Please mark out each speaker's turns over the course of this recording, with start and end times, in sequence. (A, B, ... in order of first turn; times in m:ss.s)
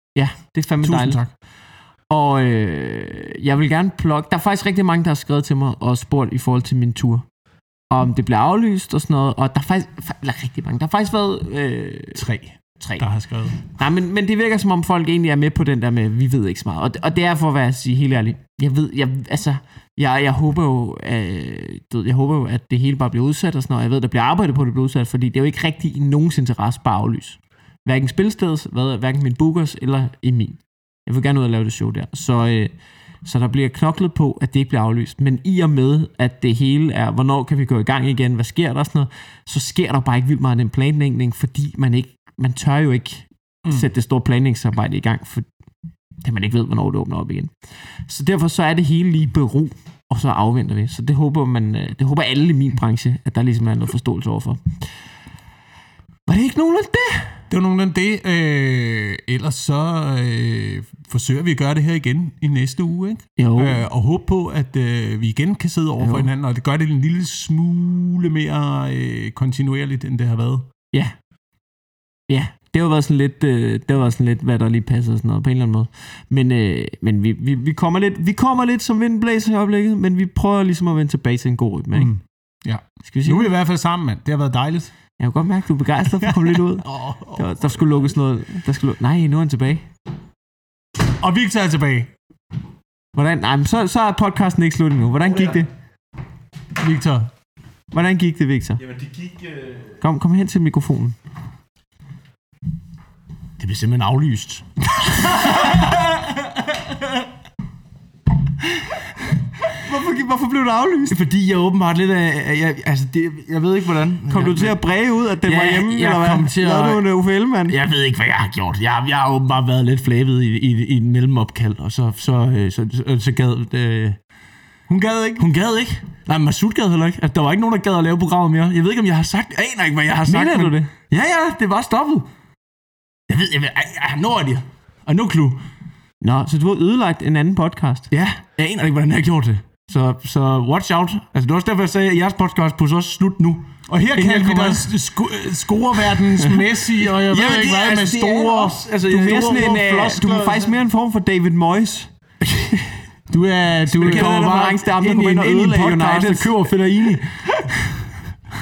0:00.2-0:01.2 A
0:00.8-0:01.3 B
0:02.1-0:07.2 A
0:07.9-0:12.2 A
0:12.2-0:13.6 B
0:12.8-0:13.1 A
0:13.6-0:45.5 A
0:46.2-0:47.5 A
0:48.1-0:54.6 A
0:56.3-0:57.4 A
0:57.5-1:10.7 B
1:03.4-1:03.8 A
1:06.0-1:06.3 A
1:12.3-1:22.1 A
1:21.9-1:24.9 B
1:23.0-1:23.5 A
1:25.2-1:29.9 A
1:26.2-1:28.1 B
1:31.2-1:32.1 B
1:33.1-1:35.7 A
1:36.8-1:37.3 B
1:37.9-1:38.8 A
1:38.8-1:39.8 C
1:40.0-1:41.2 A
1:43.6-1:46.1 C
1:45.3-1:45.8 A
1:49.7-1:51.2 A
1:51.1-1:54.8 C
1:54.3-1:57.8 A
1:55.4-1:57.0 C
1:57.7-2:04.2 C
2:04.9-2:05.5 B
2:05.4-2:12.3 C
2:10.3-2:10.9 A
2:13.3-2:15.6 C
2:16.2-2:18.1 A
2:18.1-2:24.9 C
2:23.9-2:28.8 B
2:27.2-2:30.8 C
2:29.1-2:32.1 A
2:32.6-2:32.8 C
2:33.3-2:34.4 B
2:33.9-2:37.4 C
2:34.0-2:36.5 A